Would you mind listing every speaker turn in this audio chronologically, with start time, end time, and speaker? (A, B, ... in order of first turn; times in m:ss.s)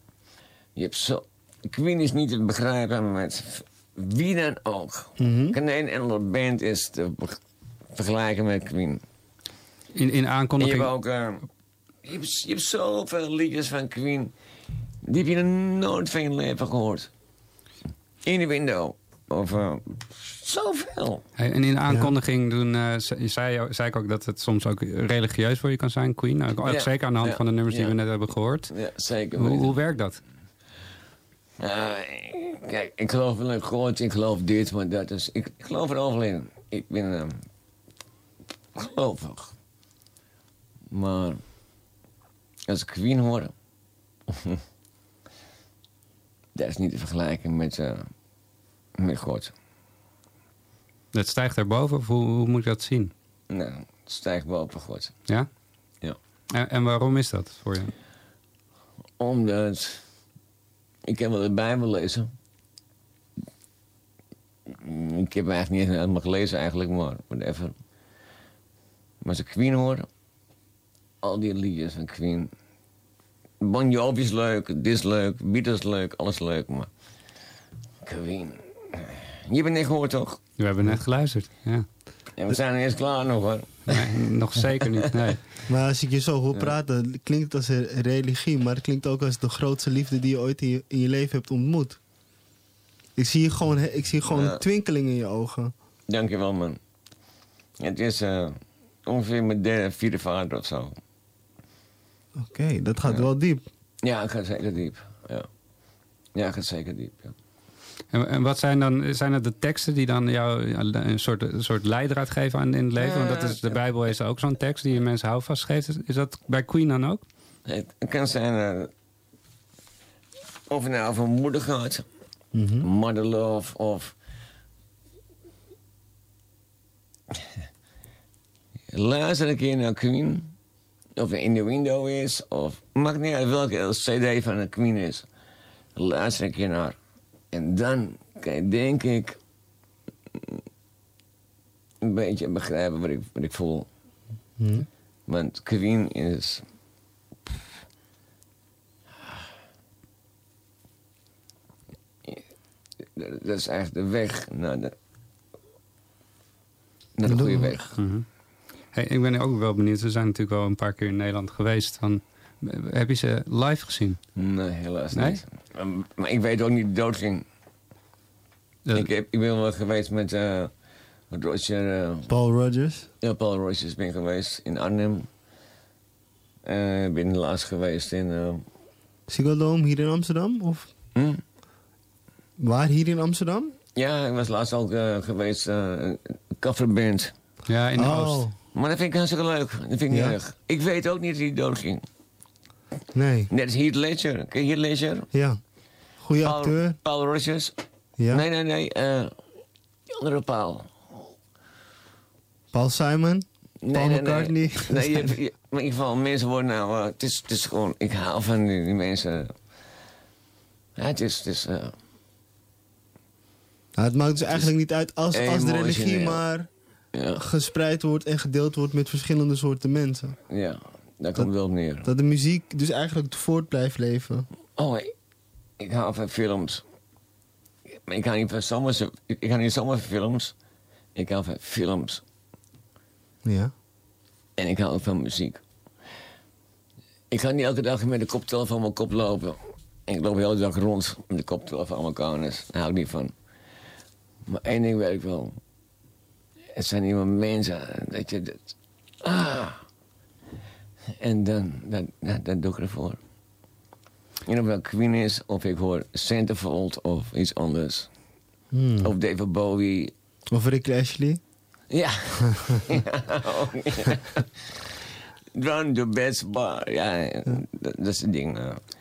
0:00.8-0:07.4 A
0:05.2-0:05.6 B
0:07.9-0:09.0 A
0:09.9-0:10.9 C
0:10.6-0:11.4 A
0:12.0-0:14.3 A
0:15.0-0:17.1 A
0:18.2-0:21.2 A
0:21.4-0:28.7 C
0:26.6-0:28.0 A
0:28.7-0:29.8 A
0:29.4-0:30.2 C
0:31.6-0:37.4 A
0:38.8-0:39.5 A
0:40.9-0:41.4 A
0:42.7-0:43.5 A
0:44.3-0:44.6 A
0:46.5-0:48.1 A
0:49.0-0:49.5 A
0:51.1-0:53.1 C
0:53.5-0:55.2 A
0:56.5-0:57.9 C
0:59.2-1:00.0 A
1:01.1-1:02.3 A
1:04.7-1:07.7 A
1:09.2-1:10.1 A
1:11.2-1:12.5 A
1:13.6-1:16.9 A
1:18.0-1:20.4 A
1:20.6-1:21.8 C
1:22.4-1:24.0 A
1:23.9-1:25.4 C
1:24.7-1:25.0 A
1:25.7-1:32.0 B
1:33.2-1:35.7 B
1:34.3-1:34.6 A
1:36.1-1:36.8 A
1:37.8-1:40.9 A
1:42.4-1:43.6 B
1:44.0-1:45.5 A
1:46.3-1:47.3 A
1:48.1-1:57.2 C
1:53.0-1:53.8 A
1:57.6-1:58.9 A
2:00.7-2:02.0 A
2:02.5-2:02.9 B
2:02.8-2:04.1 A
2:08.9-2:10.5 A
2:11.2-2:15.2 A
2:16.0-2:17.0 A
2:17.5-2:19.4 A
2:22.0-2:23.9 A
2:24.6-2:24.9 B
2:25.3-2:26.6 A
2:33.2-2:34.9 A
2:37.2-2:37.8 A
2:37.3-2:37.8 B
2:38.0-2:38.2 C
2:38.9-2:44.2 C
2:44.4-2:47.4 A
2:45.2-2:45.4 C
2:48.9-2:50.7 A
2:51.3-2:52.3 A
2:52.3-2:53.1 B
2:53.2-2:55.3 A
2:56.6-2:58.6 A
2:59.3-3:00.9 B
3:01.1-3:01.4 A
3:02.6-3:03.7 B
3:03.9-3:07.3 A
3:07.7-3:08.4 C
3:08.0-3:08.5 B
3:08.7-3:12.0 A
3:10.1-3:10.4 B
3:13.1-3:13.5 B
3:13.5-3:15.3 A
3:15.3-3:15.6 B
3:16.2-3:17.0 B
3:16.4-3:17.7 A
3:18.3-3:19.3 A
3:20.1-3:21.1 A
3:22.7-3:25.3 B
3:23.8-3:29.5 A
3:31.0-3:31.9 A
3:34.0-3:36.7 B
3:35.3-3:36.4 A
3:37.1-3:37.4 A
3:37.4-3:40.4 B
3:40.5-3:42.1 A
3:42.0-3:44.5 B
3:44.8-3:45.1 A
3:45.8-3:46.8 A
3:48.1-3:50.5 A
3:51.1-3:52.2 A
3:53.4-3:53.7 B
3:54.6-3:55.6 A
3:57.3-4:03.3 A
4:04.5-4:05.6 A
4:06.7-4:08.7 A
4:09.2-4:09.8 A
4:11.2-4:13.2 A
4:14.4-4:18.1 A
4:18.7-4:19.1 B
4:19.0-4:20.1 A
4:20.5-4:21.4 B
4:21.9-4:24.5 A
4:25.5-4:28.8 A